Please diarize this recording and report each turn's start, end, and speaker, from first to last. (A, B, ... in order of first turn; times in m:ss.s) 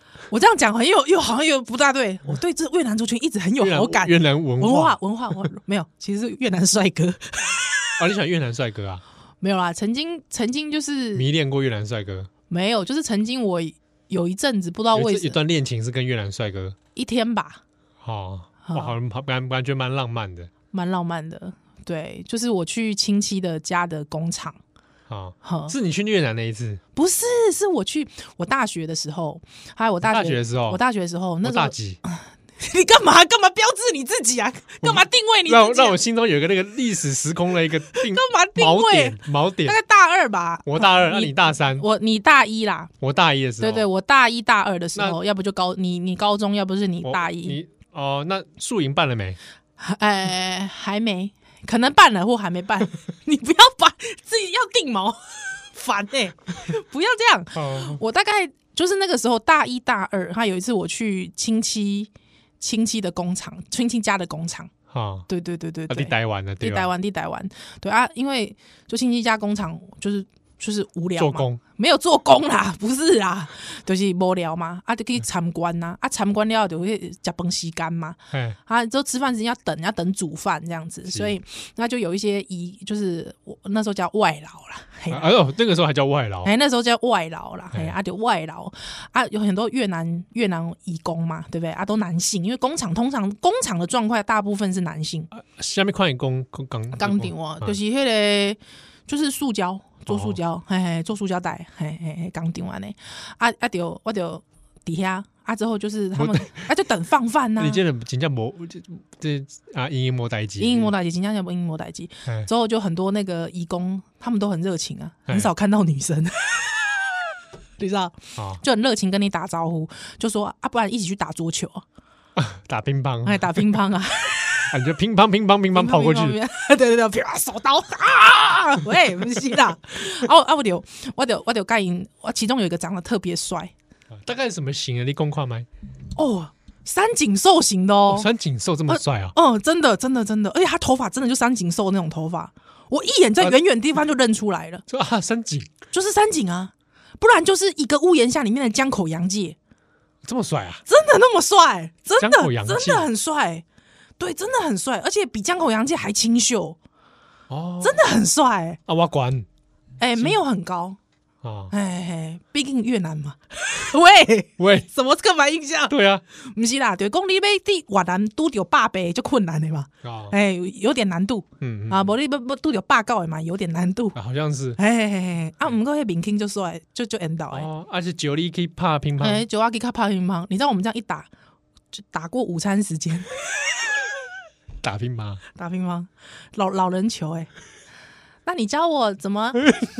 0:00.3-0:07.9 A
0:03.6-0:05.0 B
0:08.0-0:09.0 B
0:09.4-0:11.2 A
0:11.1-0:12.3 B
0:12.5-0:15.4 A
0:14.9-0:16.8 B
0:17.0-0:17.6 A
0:18.0-0:20.5 B
0:18.6-0:19.0 A
0:20.7-0:24.6 A
0:25.1-0:26.8 B
0:25.4-0:25.7 A
0:26.9-0:36.0 A
0:30.0-0:30.8 B
0:31.4-0:32.0 B
0:34.8-0:39.8 B
0:37.9-0:42.9 A
0:40.6-0:41.8 B
0:43.0-0:43.9 B
0:43.6-0:47.6 A
0:47.0-0:49.4 B
0:49.8-1:04.7 A
0:57.5-0:58.0 B
1:04.9-1:05.3 B
1:05.3-1:25.3 A
1:05.9-1:06.9 B
1:11.2-1:11.6 B
1:18.3-1:18.6 B
1:21.1-1:21.3 B
1:25.1-1:26.5 B
1:26.4-1:35.3 A
1:35.3-1:37.8 B
1:37.0-1:47.8 A
1:40.1-1:40.4 B
1:46.1-1:46.6 B
1:47.6-1:50.9 B
1:50.6-1:56.8 A
1:57.8-2:01.8 A
2:02.4-2:03.8 B
2:03.2-2:04.7 A
2:04.7-2:06.4 B
2:05.7-2:13.7 A
2:14.1-2:15.7 B
2:16.2-2:18.3 A
2:18.1-2:19.3 B
2:18.9-2:24.8 A
2:24.9-2:25.7 B
2:25.9-2:29.6 A
2:30.2-2:30.8 B
2:30.9-2:33.6 A
2:32.2-2:33.1 B
2:34.2-2:36.8 A
2:37.5-2:38.0 B
2:37.8-2:38.8 A
2:38.9-2:39.5 B
2:40.0-2:41.0 A
2:41.4-2:41.7 B
2:41.7-2:54.2 A
2:44.6-2:44.9 B
2:45.9-2:46.2 B
2:50.0-2:50.3 B
2:51.6-2:52.1 B
2:54.1-2:54.8 B
2:54.8-2:57.7 A
2:57.5-2:59.4 B
2:59.2-3:01.3 A
3:01.9-3:03.3 A
3:04.8-3:05.4 B
3:05.6-3:07.5 A
3:08.4-3:09.8 A